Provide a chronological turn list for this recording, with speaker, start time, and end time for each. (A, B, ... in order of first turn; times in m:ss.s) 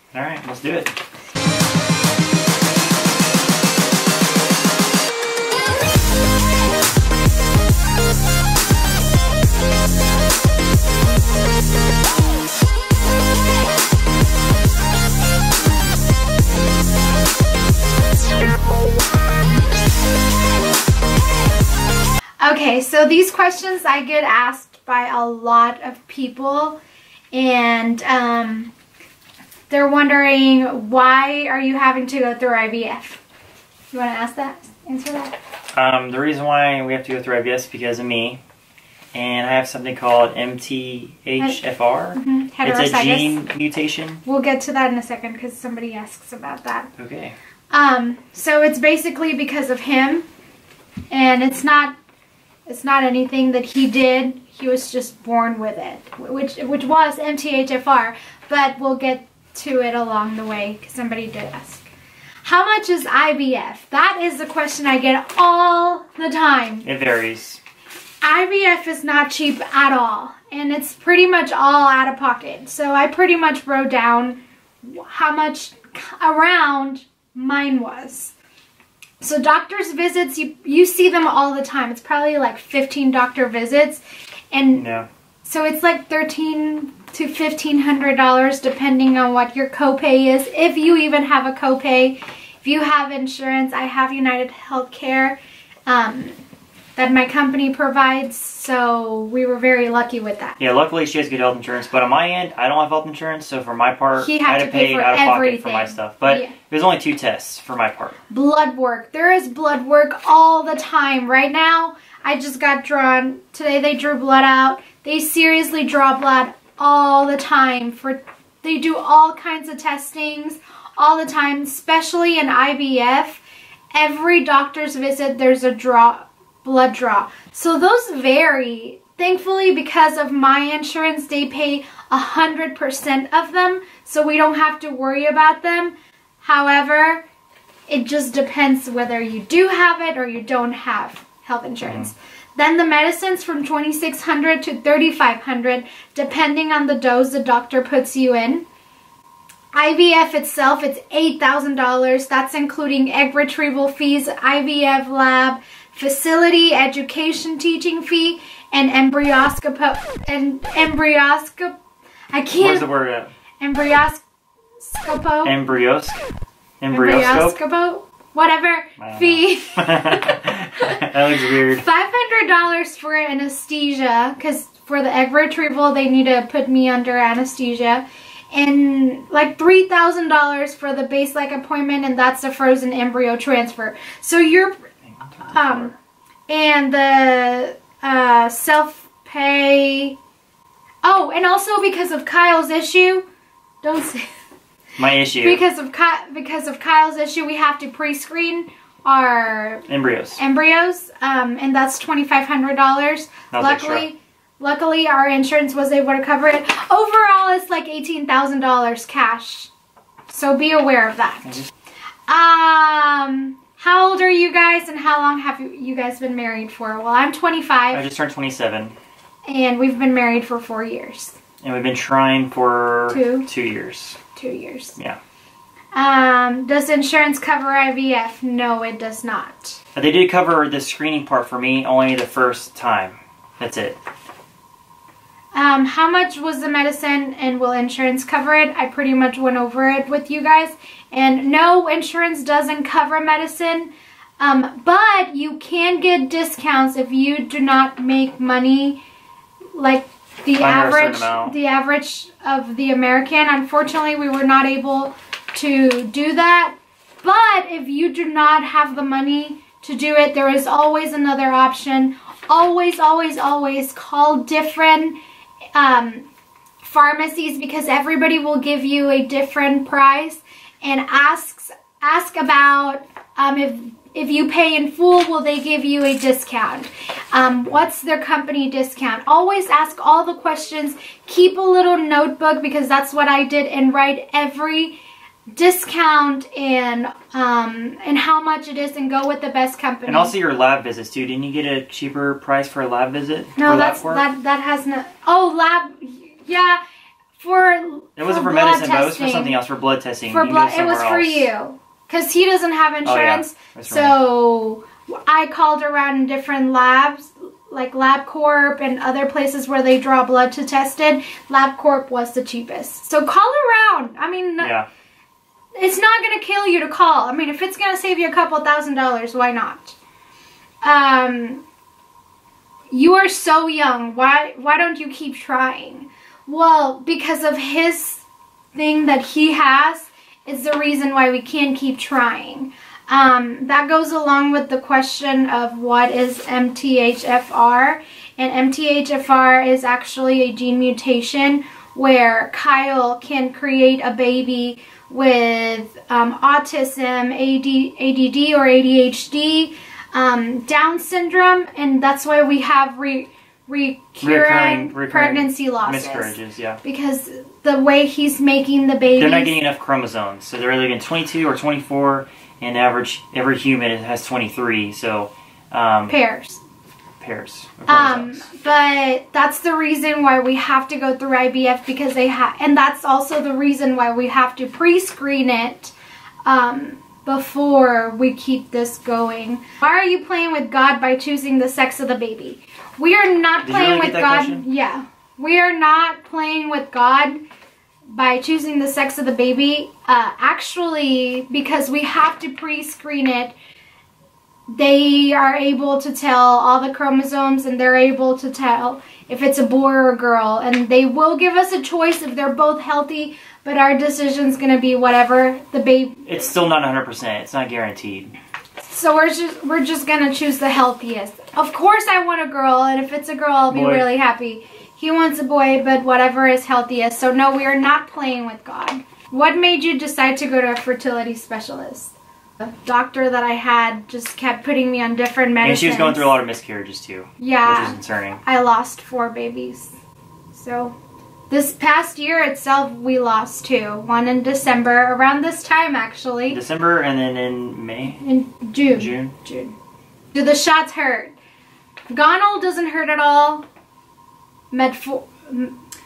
0:00.1-0:00.9 A
0:22.4-0:26.8 B
0:27.3-0:28.7 B
0:29.7-0:33.2 B
0:33.9-0:35.4 B
0:35.7-0:38.4 A
0:39.1-0:44.2 A
0:42.2-0:43.4 B
0:44.3-0:46.9 B
0:47.0-0:47.4 A
0:47.7-0:50.2 B
0:51.1-0:51.9 B
0:52.7-1:01.9 B
1:02.4-1:06.9 B
1:06.8-1:07.6 A
1:08.2-1:18.3 B
1:19.2-1:24.9 B
1:24.7-1:25.1 A
1:25.4-1:36.4 B
1:37.0-1:40.6 B
1:40.6-1:48.2 A
1:44.2-1:46.5 B
1:48.3-2:03.4 B
2:03.9-2:17.2 B
2:17.9-2:28.6 B
2:21.8-2:22.1 A
2:29.7-2:41.8 B
2:42.3-2:42.9 B
2:42.6-2:43.3 A
2:43.6-2:44.2 B
2:44.8-2:45.6 B
2:45.4-2:46.2 A
2:46.8-2:47.6 A
2:46.9-3:04.9 B
2:49.0-2:51.9 A
3:05.1-3:05.9 A
3:05.5-3:05.9 B
3:06.5-3:10.2 B
3:11.0-3:13.2 B
3:13.8-3:14.3 B
3:15.0-3:15.6 A
3:15.4-3:19.9 B
3:19.9-3:20.4 A
3:20.4-3:29.7 B
3:23.5-3:24.1 A
3:30.3-3:31.6 B
3:32.3-3:38.0 B
3:37.9-3:39.0 A
3:39.5-3:41.4 B
3:41.6-3:44.2 A
3:43.1-3:43.5 B
3:44.4-3:45.0 B
3:46.0-3:49.8 B
3:50.0-3:54.0 A
3:55.5-4:09.0 B
4:09.8-4:25.2 B
4:10.6-4:11.6 A
4:25.8-4:26.3 B
4:26.8-4:45.0 B
4:45.6-4:50.3 B
4:50.1-4:54.3 A
4:53.6-4:56.8 B
4:57.4-4:59.6 B
4:58.2-5:01.5 A
5:00.3-5:14.7 B
5:03.0-5:04.2 A
5:14.6-5:14.9 A
5:15.8-5:20.0 B
5:20.8-5:21.6 B
5:22.9-5:28.2 B
5:28.8-5:59.6 B
5:54.2-5:56.8 A
5:59.2-6:06.2 A
6:06.1-6:06.6 B
6:07.2-6:08.4 A
6:07.9-6:15.9 B
6:16.5-6:27.4 B
6:23.6-6:24.6 A
6:28.1-6:33.5 B
6:34.7-6:46.3 B
6:46.3-6:48.3 A
6:48.8-7:06.3 B
6:53.7-6:54.1 A
7:05.6-7:08.4 A
7:07.4-7:09.9 B
7:10.5-7:11.0 B
7:11.5-7:16.6 B
7:16.5-7:18.2 A
7:18.2-7:19.7 B
7:18.9-7:19.4 A
7:20.3-7:21.3 B
7:22.1-7:23.6 B
7:24.7-7:25.8 B